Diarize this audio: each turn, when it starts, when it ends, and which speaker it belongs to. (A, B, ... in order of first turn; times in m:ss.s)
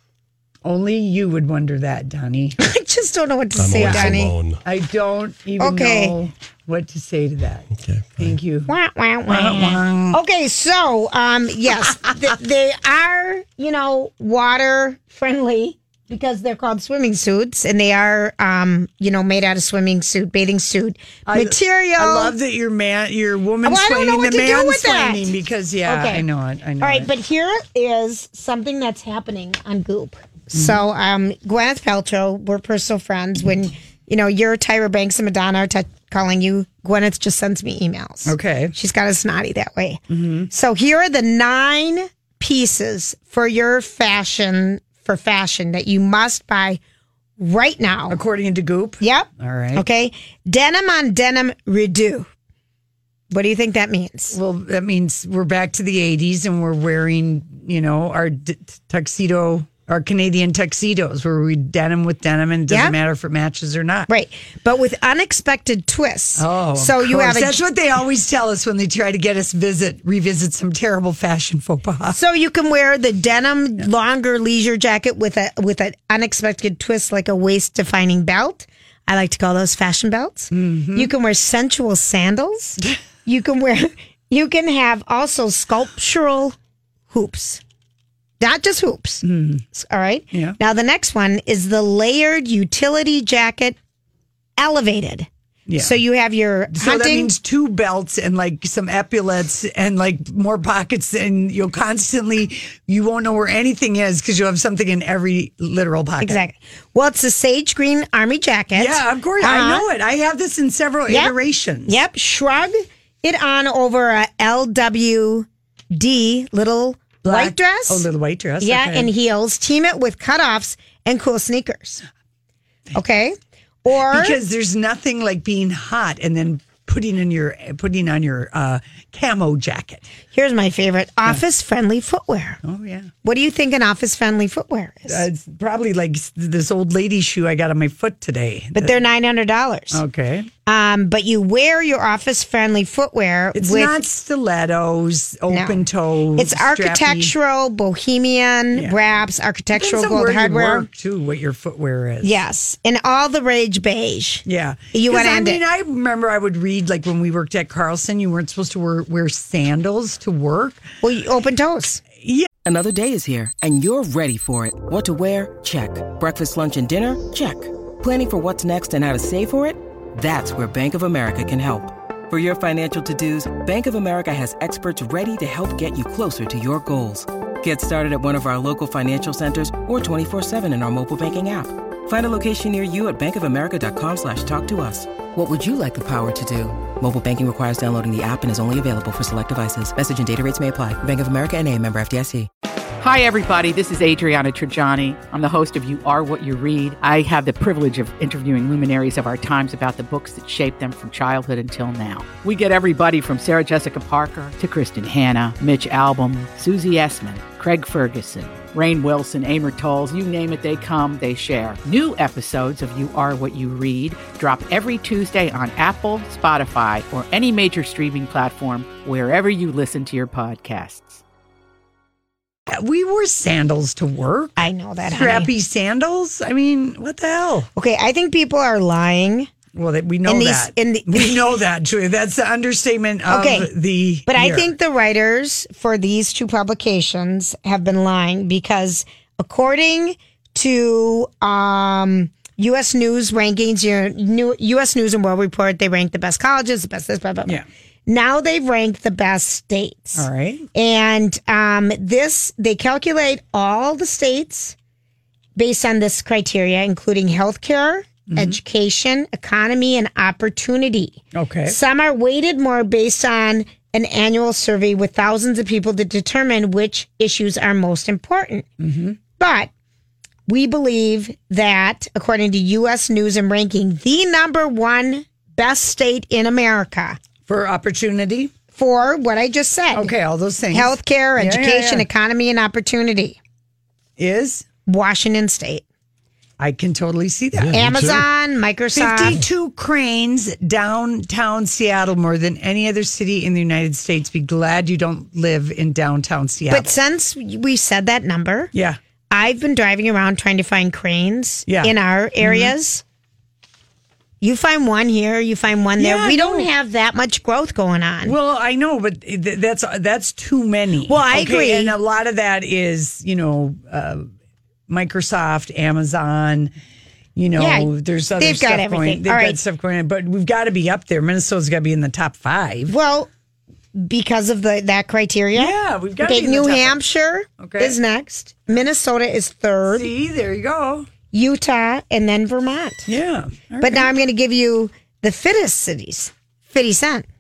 0:00.6-0:02.6 A
0:02.6-0:04.3 B
0:03.6-0:04.6 C
0:03.8-0:07.7 A
0:05.6-0:06.1 B
0:07.8-0:08.3 C
0:08.2-0:08.7 A
0:08.7-0:22.4 B
0:09.3-0:10.2 A
0:21.2-0:27.1 A
0:23.6-0:25.3 B
0:25.8-0:26.2 B
0:26.8-0:46.8 B
0:30.5-0:30.8 A
0:38.2-0:38.7 A
0:40.1-0:40.5 A
0:47.4-0:48.2 B
0:48.1-0:49.8 A
0:49.0-0:52.3 B
0:53.3-0:54.4 B
0:54.3-1:04.1 A
1:02.7-1:03.0 B
1:04.1-1:07.6 B
1:06.4-1:12.2 A
1:12.1-1:26.6 B
1:20.5-1:21.1 A
1:27.1-1:27.6 B
1:28.4-1:33.8 B
1:29.2-1:29.6 A
1:30.3-1:30.6 A
1:34.6-1:35.3 B
1:35.7-1:36.0 A
1:35.8-1:37.3 B
1:36.7-1:46.4 A
1:46.2-1:49.9 B
1:48.8-1:52.0 A
1:51.1-1:51.3 B
1:51.8-1:58.0 B
1:57.2-1:59.1 A
1:58.6-2:02.0 B
2:02.9-2:04.4 B
2:04.1-2:10.0 A
2:10.3-2:12.6 B
2:12.6-2:13.1 A
2:13.2-2:15.2 B
2:15.1-2:19.0 A
2:18.8-2:20.0 B
2:19.9-2:20.5 A
2:20.6-2:24.0 B
2:23.5-2:27.3 A
2:25.5-2:25.8 B
2:26.4-2:30.9 B
2:29.7-2:32.4 A
2:32.2-2:35.6 B
2:34.4-2:40.8 A
2:41.0-2:42.0 B
2:42.2-2:42.5 A
2:42.6-3:12.5 D
3:13.0-3:41.2 E
3:42.7-3:47.7 A
3:44.6-3:45.5 B
3:47.8-3:49.5 B
3:49.7-3:54.7 A
3:50.2-3:51.4 B
3:53.3-3:53.7 B
3:54.2-4:14.8 B
4:10.2-4:10.7 A
4:15.6-4:28.7 B
4:18.3-4:18.6 A
4:21.3-4:21.8 A
4:28.8-4:29.2 A
4:29.4-4:29.7 B
4:30.5-4:37.2 B
4:37.4-4:38.5 A
4:38.8-4:40.1 B
4:39.9-4:42.1 A
4:40.7-4:43.4 B
4:44.2-4:44.6 A
4:44.8-4:45.8 B
4:46.6-4:48.2 A
4:47.5-4:48.2 C
4:47.7-4:49.4 B
4:48.9-4:56.9 A
4:56.7-4:58.7 B
4:58.7-4:59.0 A
4:59.3-5:03.0 B
5:01.7-5:02.7 A
5:04.4-5:08.4 B
5:06.0-5:06.7 A
5:08.2-5:14.3 A
5:11.1-5:12.0 B
5:14.9-5:16.7 A
5:17.4-5:22.9 A
5:17.6-5:19.6 B
5:22.9-5:23.3 B
5:23.9-5:30.1 B
5:25.5-5:27.0 A
5:27.6-5:28.0 A
5:29.9-5:31.1 A
5:31.3-5:33.1 B
5:33.1-5:34.1 A
5:33.8-5:37.2 B